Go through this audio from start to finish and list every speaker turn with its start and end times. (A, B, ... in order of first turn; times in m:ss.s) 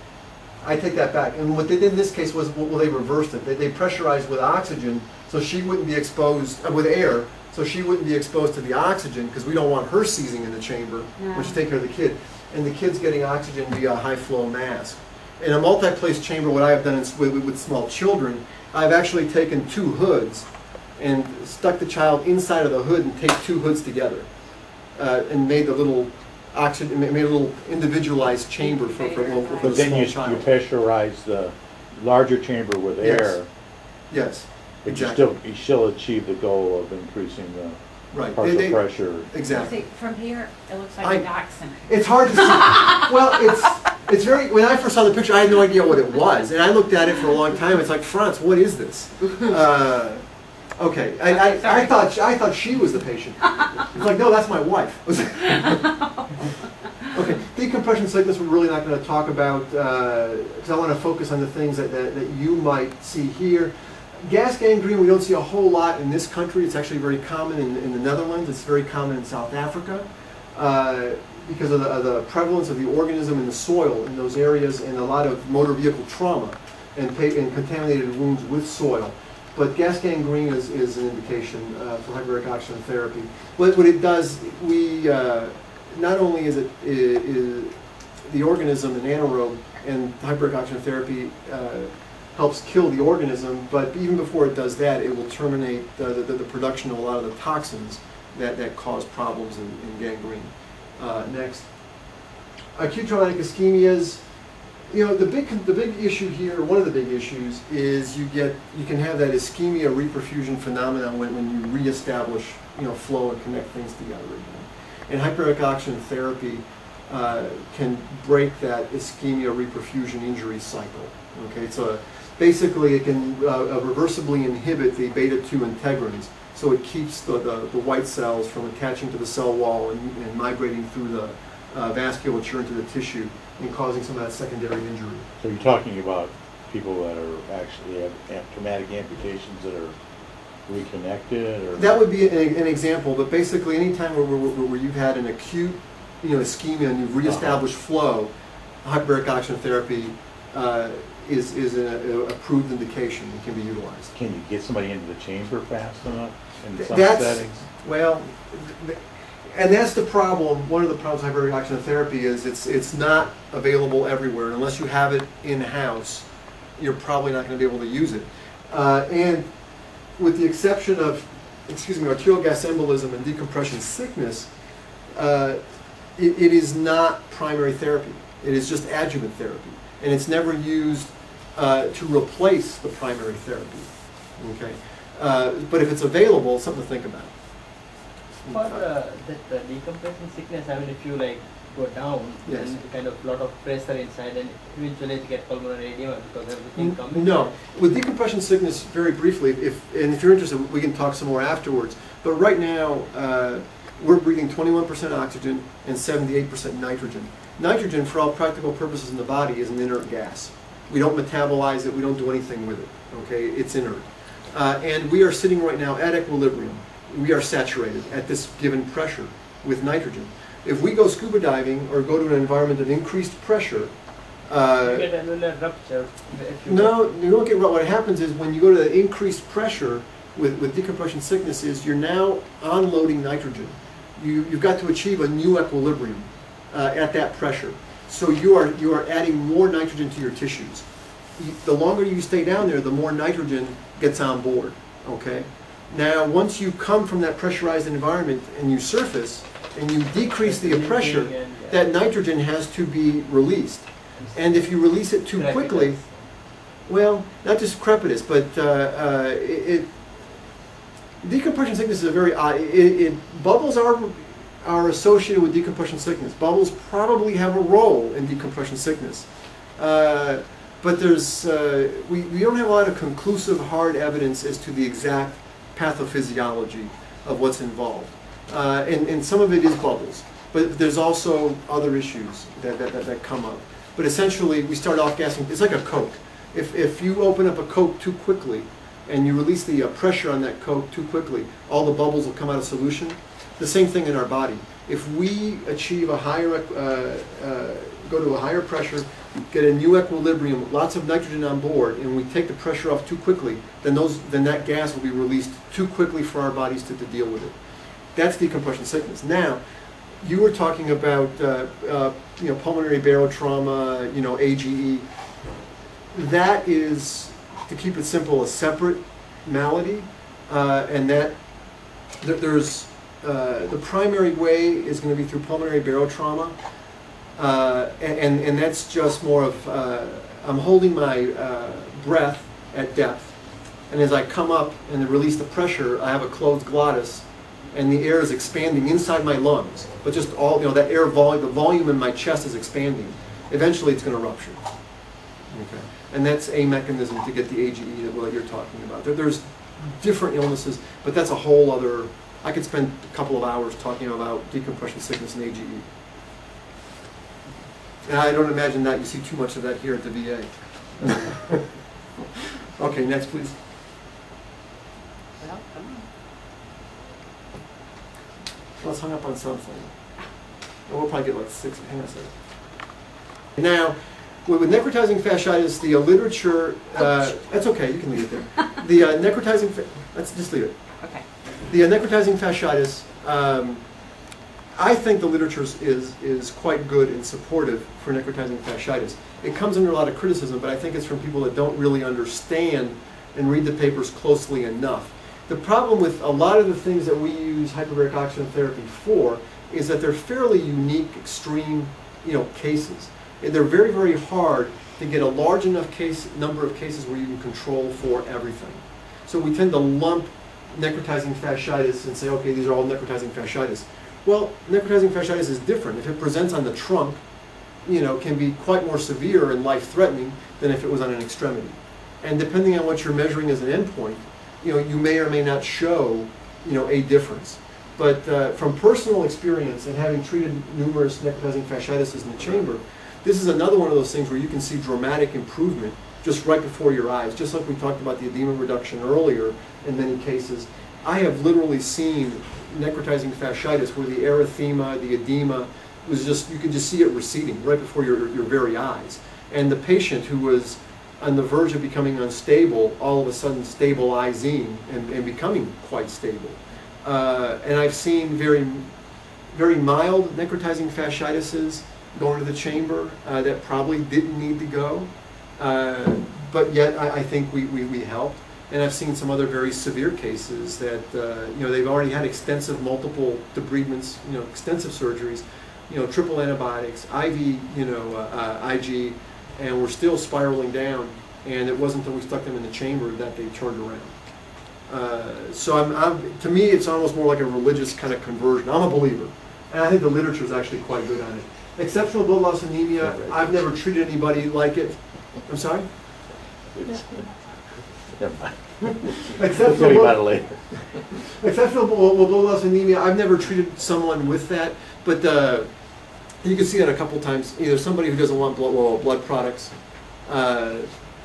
0:00.6-0:20.4 A
0:11.2-0:11.6 B
0:21.0-0:24.3 A
0:25.0-0:30.5 A
0:28.6-0:29.9 B
0:29.6-0:33.5 C
0:33.0-0:33.4 A
0:34.1-0:35.2 A
0:34.8-0:39.3 C
0:38.1-0:39.8 A
0:39.4-0:43.1 B
0:41.0-0:41.3 A
0:41.8-0:50.2 A
0:50.8-0:55.8 A
0:51.3-0:52.0 B
0:55.4-0:56.4 B
0:57.1-1:41.7 A
1:42.7-1:44.2 A
1:44.9-2:15.3 A
2:15.4-2:20.0 C
2:20.7-2:22.0 C
2:21.8-2:28.3 A
2:27.2-2:27.6 C
2:28.8-2:34.1 A
2:34.1-2:37.6 C
2:36.8-2:46.3 A
2:46.8-2:49.5 A
2:50.2-2:54.5 A
2:55.1-2:55.6 A
2:56.2-3:07.3 A
3:08.4-3:08.8 A
3:08.4-3:17.5 D
3:12.4-3:12.7 A
3:16.8-3:43.9 A
3:44.5-3:45.0 A
3:44.8-3:47.0 D
3:46.6-4:00.8 A
4:01.4-4:16.0 A
4:10.4-4:11.8 D
4:14.2-4:14.6 D
4:15.3-4:16.1 D
4:16.9-4:19.9 A
4:21.2-5:07.5 A
5:08.1-5:09.6 A
5:10.2-5:15.1 A
5:16.1-5:21.4 A
5:22.2-5:26.5 A
5:27.4-5:33.3 A
5:33.9-5:44.6 A
5:45.5-5:55.9 A
5:58.0-6:01.7 A
6:02.8-6:03.6 A
6:05.4-6:06.0 B
6:08.8-6:09.9 A
6:10.9-6:12.3 A
6:13.6-6:20.7 A
6:21.6-6:23.8 A
6:24.8-6:57.2 A
6:57.8-7:38.9 A
7:39.5-8:04.2 A
8:04.9-8:15.9 A
8:13.0-8:13.3 C
8:16.7-8:17.5 C
8:18.0-8:21.0 C
8:19.3-8:20.2 A
8:21.3-8:25.7 A
8:26.4-8:29.7 A
8:30.2-8:30.9 A